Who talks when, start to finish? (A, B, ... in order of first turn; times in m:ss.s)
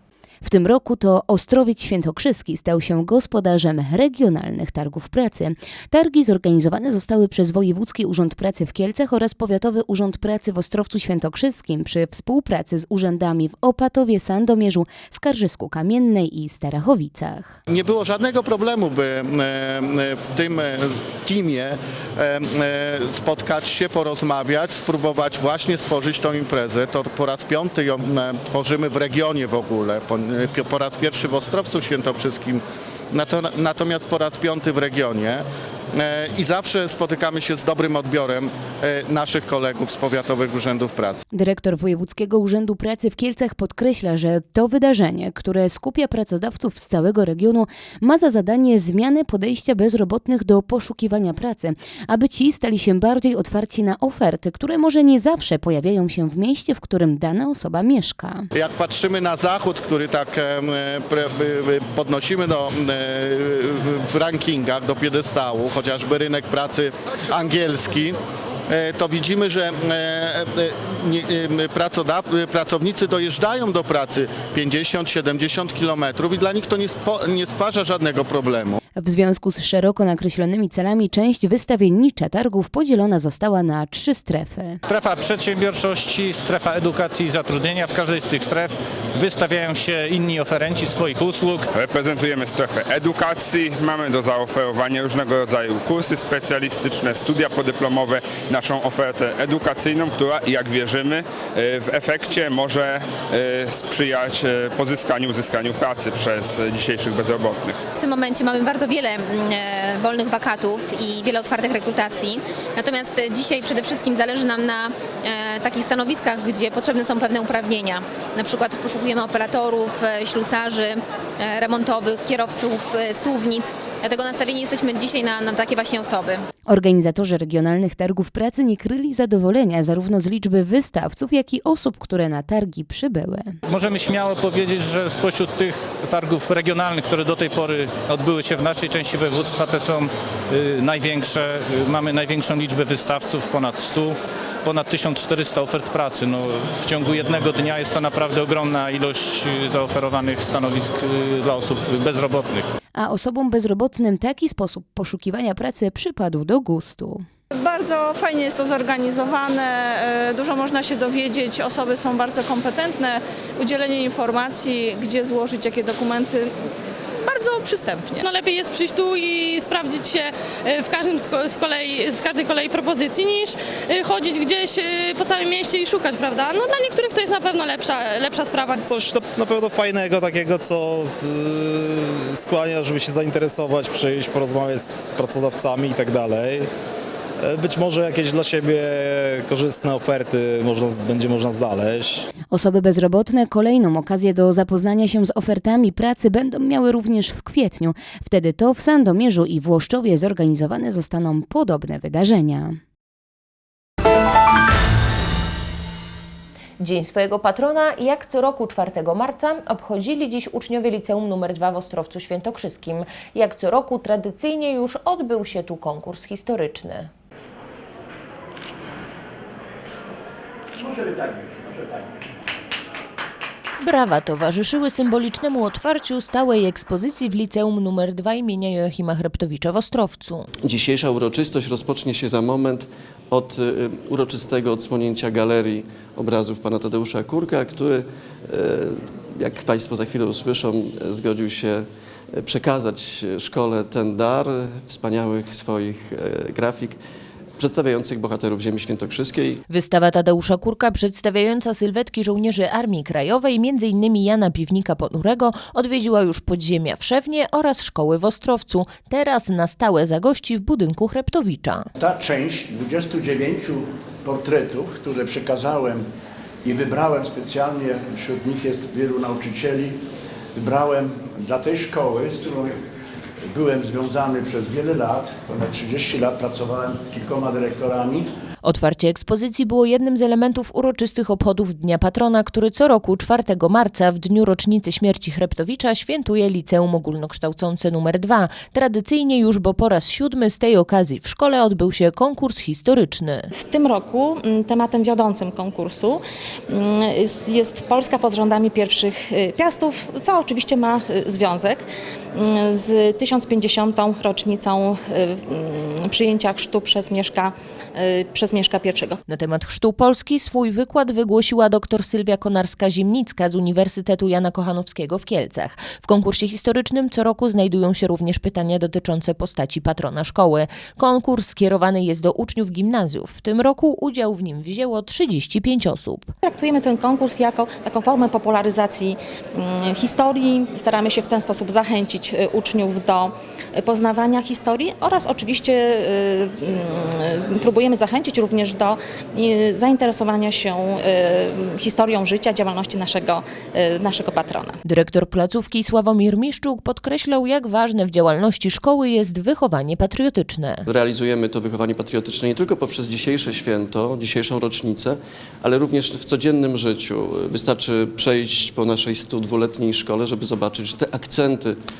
0:00.4-0:17.6 A
0:17.7-0:41.2 B
0:41.3-0:58.5 A
0:58.5-1:08.2 B
1:08.7-1:18.8 B
1:19.0-1:24.8 A
1:24.9-1:31.7 C
1:31.7-1:47.8 D
1:48.0-2:06.4 E
2:06.7-2:13.6 A
2:13.7-2:32.7 C
2:33.0-2:37.2 A
2:37.5-2:46.5 F
2:47.2-2:48.3 F
2:54.3-2:56.4 G
2:57.6-2:58.8 G
2:58.8-3:06.7 H
3:07.4-3:12.3 H
3:12.5-3:22.8 A
3:26.8-3:37.1 I
3:40.8-3:42.0 J
3:43.8-3:50.5 I
3:52.3-3:52.7 K
3:53.8-3:55.6 K
3:56.2-3:57.9 K
3:59.6-4:01.3 K
4:02.6-4:04.4 K
4:07.7-4:09.2 K
4:09.7-4:21.9 I
4:22.0-4:26.0 J
4:26.6-4:30.0 J
4:30.6-4:32.8 J
4:33.5-4:38.2 J
4:38.6-4:53.5 I
4:53.6-4:56.2 L
4:56.7-5:01.8 L
5:02.4-5:09.2 L
5:09.3-5:26.3 I
5:26.5-5:44.7 L
5:44.8-5:50.9 I
5:50.9-5:55.2 K
5:55.7-6:01.5 K